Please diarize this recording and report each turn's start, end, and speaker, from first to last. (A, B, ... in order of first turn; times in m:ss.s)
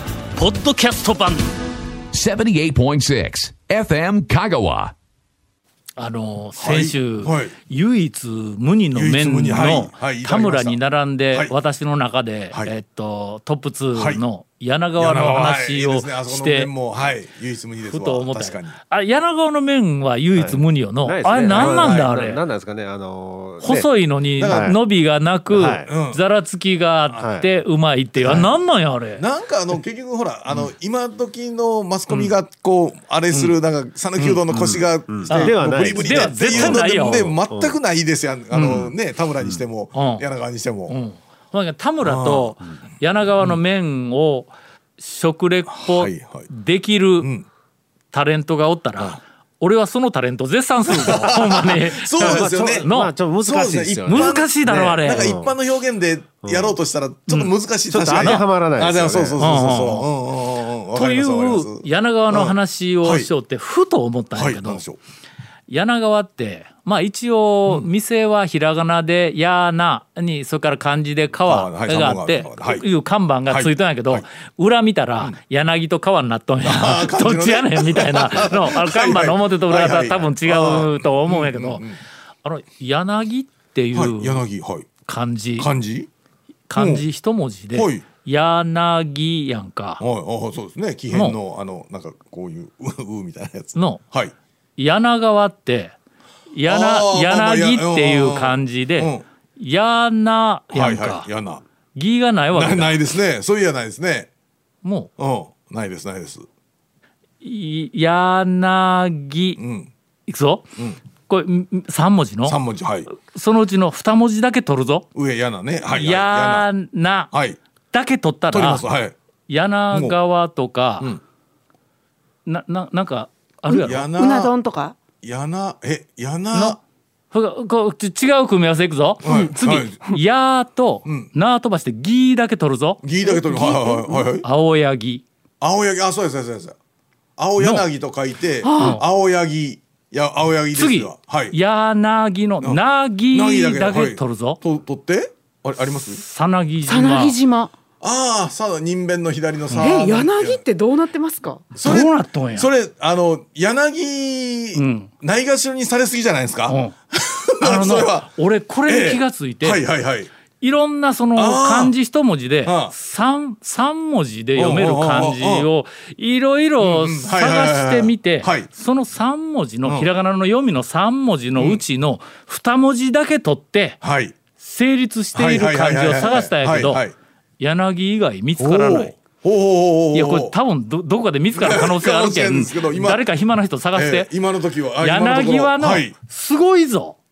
0:00.3-0:01.5 A
0:02.1-0:04.9 B
0:06.0-0:16.7 A
0:06.6-0:07.5 C
0:08.9-0:10.8 C
0:13.9-0:14.2 C
0:15.0-0:18.8 C
0:17.8-0:22.4 A
0:20.4-0:23.9 D
0:21.4-0:22.1 C
0:23.6-0:29.2 A
0:24.4-0:24.7 C
0:24.4-0:24.8 D
0:25.5-0:25.9 D
0:25.8-0:26.2 C
0:27.2-0:27.5 D
0:28.2-0:28.5 D
0:29.2-0:41.0 C
0:34.4-0:36.9 D
0:35.3-0:37.4 A
0:37.5-0:37.8 D
0:38.5-0:38.9 A
0:39.9-0:40.3 A
0:40.9-0:47.3 A
0:42.0-0:42.5 C
0:45.7-0:46.5 C
0:47.2-0:47.4 C
0:48.1-0:53.1 A
0:50.9-0:52.9 C
0:52.2-0:54.4 D
0:53.4-1:03.3 C
0:54.1-0:55.3 A
0:55.0-0:55.6 D
0:56.4-0:56.8 D
0:57.3-0:57.5 A
0:57.9-0:59.4 D
0:59.4-1:00.1 A
1:00.9-1:04.8 A
1:04.3-1:05.0 C
1:05.7-1:21.8 A
1:11.4-1:12.8 C
1:13.5-1:14.2 C
1:16.6-1:22.0 C
1:22.4-1:24.4 A
1:23.9-1:24.9 C
1:25.0-1:25.7 A
1:25.6-1:26.1 C
1:26.7-1:30.0 A
1:26.8-1:27.0 C
1:27.7-1:28.0 C
1:30.0-1:34.3 C
1:31.1-1:31.4 A
1:33.8-1:34.0 A
1:34.8-1:36.0 A
1:36.5-1:41.3 A
1:36.6-1:39.2 C
1:40.7-1:41.6 C
1:41.9-1:43.0 A
1:42.5-1:44.3 C
1:44.8-1:45.1 A
1:45.2-1:46.5 C
1:47.4-1:49.6 A
1:49.6-1:49.9 C
1:50.3-1:50.6 A
1:51.3-1:52.6 A
1:52.4-1:53.1 C
1:53.1-1:55.1 A
1:55.1-1:56.7 C
1:55.9-1:57.3 A
1:57.3-1:57.6 C
1:57.9-1:58.8 A
1:58.5-1:59.1 C
1:59.5-2:01.1 A
1:59.9-2:00.2 C
2:02.4-2:04.1 A
2:03.7-2:05.0 E
2:03.8-2:04.5 C
2:05.2-2:06.8 C
2:06.5-2:06.8 A
2:07.3-2:13.0 A
2:09.2-2:10.1 C
2:11.0-2:11.3 C
2:13.0-2:14.4 C
2:13.2-2:14.2 E
2:14.4-2:15.2 A
2:15.6-2:16.8 C
2:17.4-2:21.6 C
2:17.6-2:17.9 A
2:18.6-2:19.0 E
2:18.8-2:19.0 A
2:20.7-2:24.6 A
2:22.6-2:26.2 C
2:26.2-2:27.4 A
2:26.9-2:27.7 E
2:28.0-2:30.6 C
2:29.7-2:30.0 A
2:29.8-2:31.6 E
2:31.7-2:38.3 C
2:31.8-2:32.7 A
2:34.8-2:35.1 A
2:36.7-2:36.9 A
2:37.6-2:39.8 A
2:38.8-2:40.3 C
2:40.6-2:54.0 A
2:41.3-2:42.0 C
2:42.6-2:42.9 C
2:44.6-2:45.7 C
2:46.8-2:48.7 C
2:49.8-2:50.1 C
2:51.6-2:51.8 C
2:54.0-2:54.3 C
2:54.6-2:57.0 A
2:55.3-2:57.1 C
2:57.6-2:59.2 A
2:58.6-3:00.5 C
3:00.1-3:04.3 A
3:01.5-3:03.2 C
3:03.9-3:06.1 C
3:05.0-3:07.2 A